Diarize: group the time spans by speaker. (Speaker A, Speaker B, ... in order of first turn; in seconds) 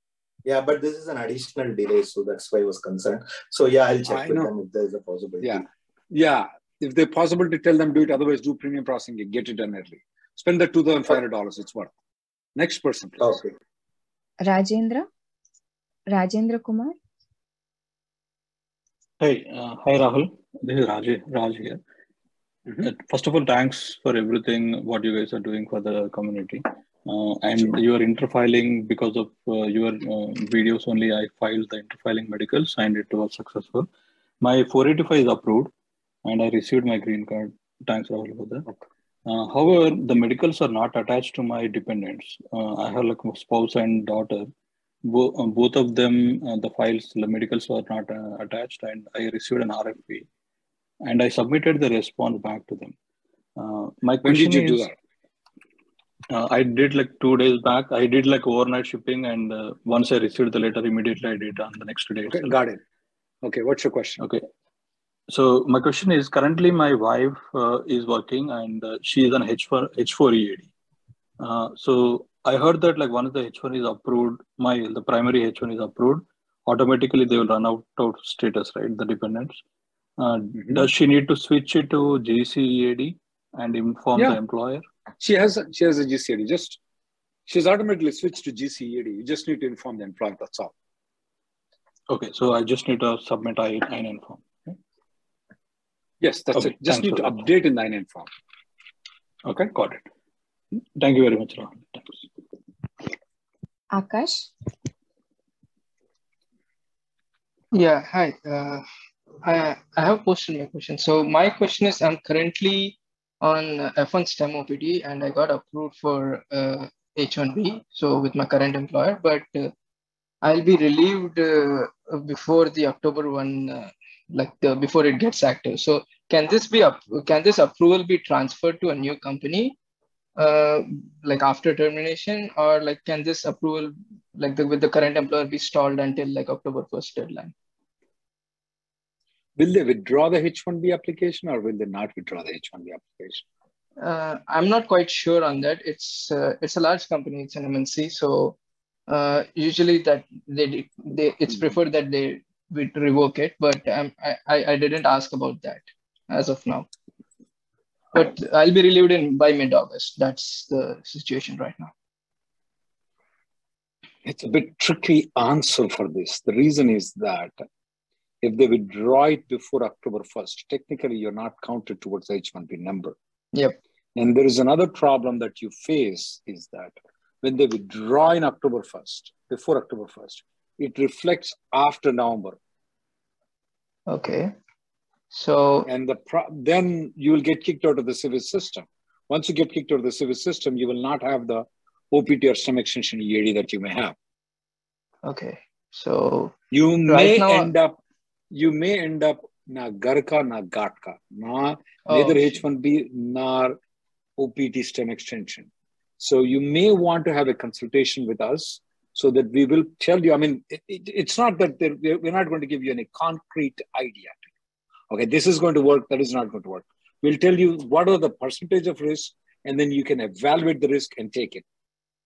Speaker A: 0.4-5.7
Speaker B: 4.1-4.5, 5.4-11.9, 12.6-13.4, 54.2-54.9, 62.3-62.8, 63.4-64.2, 80.5-80.8, 85.2-86.8, 87.5-90.7, 96.2-98.3, 139.6-143.4, 164.2-167.5, 168.4-173.1, 174.2-182.6, 185.8-194.1, 196.7-198.0, 198.5-203.8, 204.4-205.7, 206.2-214.4, 215.1-221.6
Speaker C: 14.4-15.1, 16.1-16.9, 103.9-104.5
Speaker D: 19.2-21.8, 22.8-33.9, 34.4-35.7, 36.2-38.7, 39.2-44.5, 45.0-50.3, 51.0-52.9, 53.6-54.9, 56.3-62.5, 64.2-64.4, 65.3-70.7, 71.4-79.6, 80.2-84.8, 92.1-94.7, 96.5-97.4, 99.5-100.0, 101.0-102.2
Speaker E: 107.7-108.8, 109.4-119.7, 120.4-129.7, 130.4-137.5, 144.0-148.6, 149.1-156.9, 158.1-161.9, 184.1-184.5, 185.3-185.9, 195.2-196.5, 197.1-197.7, 202.1-202.6